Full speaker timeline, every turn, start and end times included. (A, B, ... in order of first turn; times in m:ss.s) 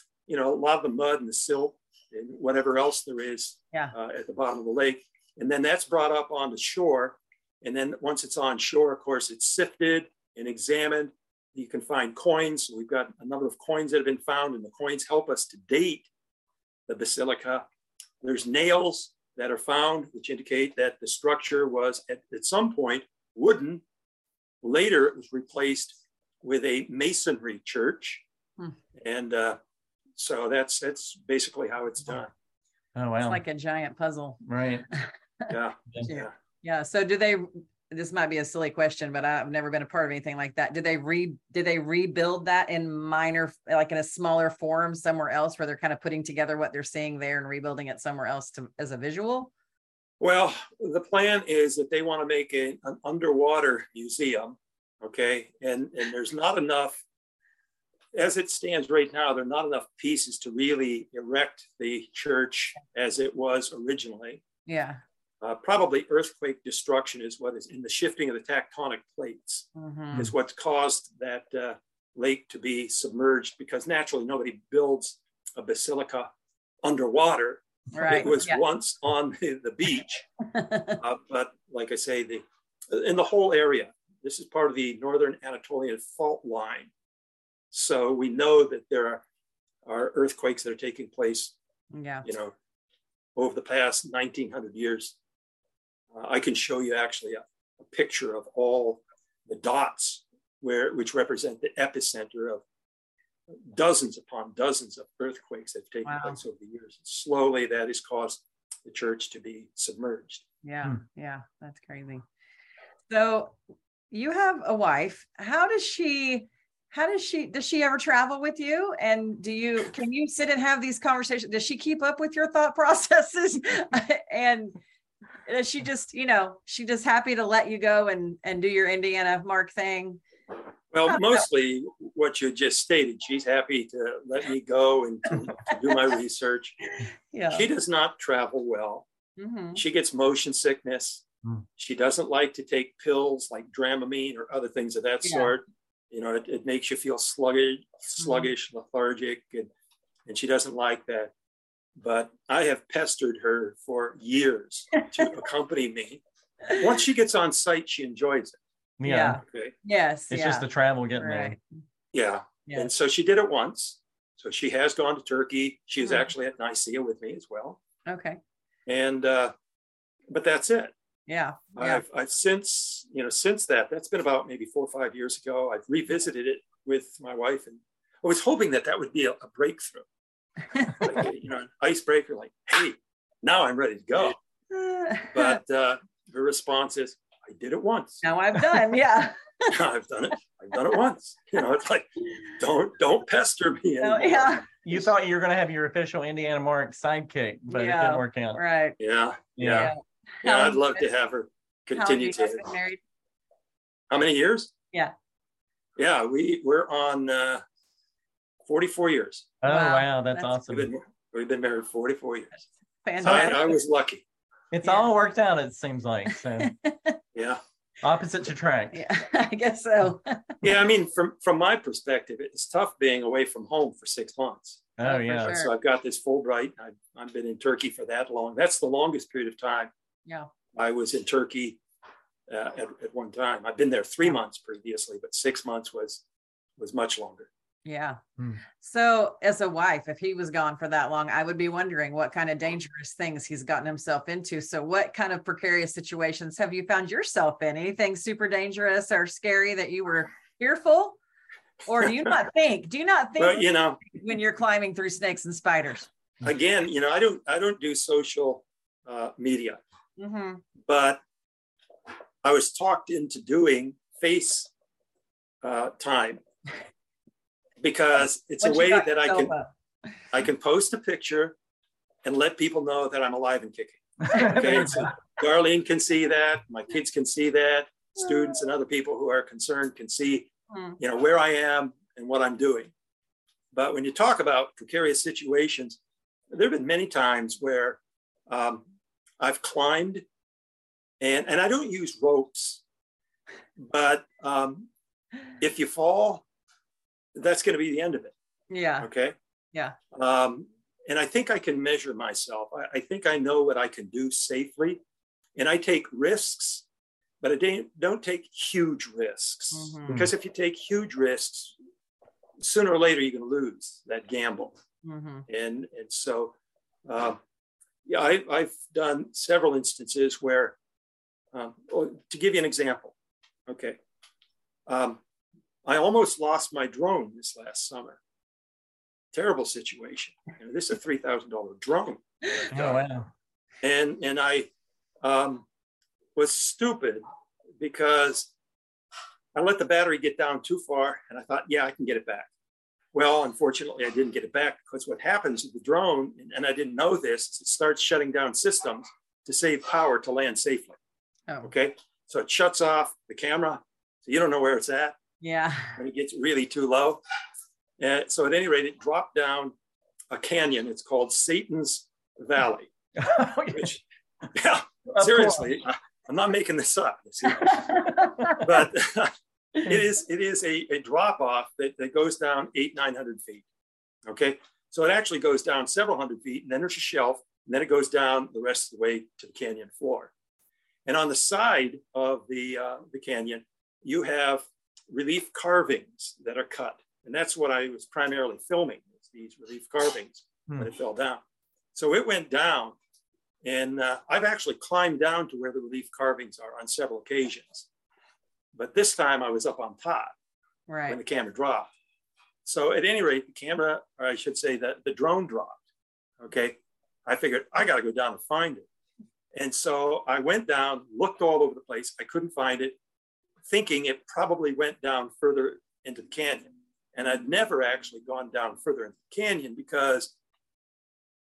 0:00.3-0:16.1 A
0:16.9-0:17.6 A
0:18.2-0:23.8 A
0:24.6-0:28.2 A
0:29.0-0:29.6 A
0:30.2-0:32.3 A
0:32.9-0:33.4 B
0:33.2-0:34.4 C
0:34.4-0:34.8 B
0:34.9-0:35.5 C
0:35.5-0:36.3 A
0:36.1-0:49.5 C
0:50.2-0:57.0 A
0:58.1-1:04.4 A
1:04.7-1:05.0 C
1:05.4-1:16.3 A
1:09.8-1:10.2 C
1:16.8-1:20.2 A
1:17.9-1:18.6 C
1:20.5-1:21.0 C
1:21.0-1:26.9 A
1:27.7-1:29.2 A
1:29.8-1:31.5 A
1:31.9-1:32.2 C
1:32.2-1:32.5 A
1:33.4-1:35.2 A
1:36.1-1:42.6 A
1:43.7-1:50.4 A
1:46.0-1:46.4 C
1:50.6-1:52.2 C
1:53.1-1:53.6 C
1:54.1-2:04.8 C
2:05.5-2:10.2 C
2:10.9-2:16.8 A
2:11.1-2:11.4 C
2:17.0-2:17.7 C
2:17.5-2:19.0 A
2:19.4-2:19.8 C
2:19.8-2:21.2 A
2:21.8-2:29.7 A
2:25.2-2:25.5 C
2:28.2-2:28.5 C
2:30.3-2:31.3 A
2:32.0-2:38.6 A
2:39.0-2:39.4 B
2:39.0-2:41.6 C
2:39.4-2:39.7 A
2:40.3-2:41.5 B
2:42.1-2:47.8 A
2:46.0-2:46.3 C
2:48.0-2:48.4 C
2:48.8-2:49.5 A
2:50.3-2:50.9 A
2:51.3-2:52.0 C
2:51.8-3:00.0 A
3:00.8-3:04.4 A
3:04.7-3:05.6 C
3:05.3-3:08.3 A
3:08.2-3:09.7 C
3:09.7-3:15.0 A
3:14.0-3:14.6 C
3:14.8-3:18.6 B
3:17.7-3:19.0 C
3:19.0-3:22.7 A
3:19.6-3:19.9 B
3:19.6-3:21.0 C
3:21.9-3:23.0 C
3:24.1-3:24.7 A
3:26.0-3:27.6 A
3:28.6-3:29.5 A
3:29.6-3:30.9 B
3:29.6-3:30.6 C
3:30.7-3:32.6 A
3:33.0-3:33.7 C
3:33.2-3:33.5 B
3:33.2-3:34.2 A
3:34.7-3:36.7 B
3:34.8-3:35.1 C
3:36.6-3:37.2 C
3:37.3-3:37.6 A
3:38.0-3:39.0 B
3:38.9-3:40.6 C
3:40.6-3:49.9 A
3:45.0-3:45.6 B
3:45.0-3:45.7 C
3:50.7-3:51.8 A
3:52.5-3:56.2 A
3:56.8-3:57.5 A
3:57.8-3:58.2 C
3:58.8-4:11.2 C
4:11.8-4:16.1 C
4:13.4-4:14.0 A
4:16.4-4:19.8 A
4:20.2-4:20.6 C
4:20.8-4:21.2 A
4:22.4-4:24.7 A
4:25.6-4:26.4 A
4:27.8-4:29.5 A
4:28.6-4:29.7 C
4:30.3-4:31.6 A
4:32.2-4:42.9 A
4:34.3-4:35.0 B
4:34.3-4:35.1 C
4:40.7-4:41.0 C
4:43.7-4:46.0 A
4:46.5-4:48.8 A
4:49.4-4:50.2 A
4:51.2-4:52.8 A
4:53.8-4:54.9 A
4:55.6-4:56.4 A
4:57.3-4:58.3 A
4:58.7-4:59.1 C
4:59.0-4:59.3 A
5:00.1-5:05.0 A
5:05.6-5:06.8 A
5:07.4-5:11.7 A
5:09.7-5:10.1 C
5:12.6-5:14.8 A
5:15.0-5:15.5 C
5:15.5-5:16.5 A
5:17.0-5:17.4 A
5:18.0-5:20.8 A
5:21.5-5:23.1 A
5:23.7-5:24.0 A
5:24.9-5:25.2 A
5:25.8-5:28.2 A
5:29.3-5:33.0 A
5:32.7-5:33.3 B
5:33.8-5:34.7 A
5:35.2-5:35.6 A
5:36.4-5:37.2 A
5:37.8-5:38.5 A
5:39.5-5:42.5 A
5:43.1-5:51.0 A
5:51.6-5:55.2 A
5:55.4-5:56.0 C
5:56.0-5:57.2 A
5:58.0-5:59.7 A
6:00.3-6:02.9 A
6:03.2-6:03.9 B
6:03.7-6:04.0 A
6:04.5-6:13.6 A
6:05.1-6:05.7 B
6:07.6-6:08.6 C
6:14.2-6:20.3 A
6:21.0-6:31.4 A
6:31.9-6:33.0 A
6:33.6-6:37.9 A
6:38.7-6:40.3 A
6:40.9-6:41.2 C
6:41.1-6:41.9 A
6:42.6-6:45.8 A
6:46.4-6:48.9 A
6:49.5-6:53.0 A
6:53.6-7:00.3 A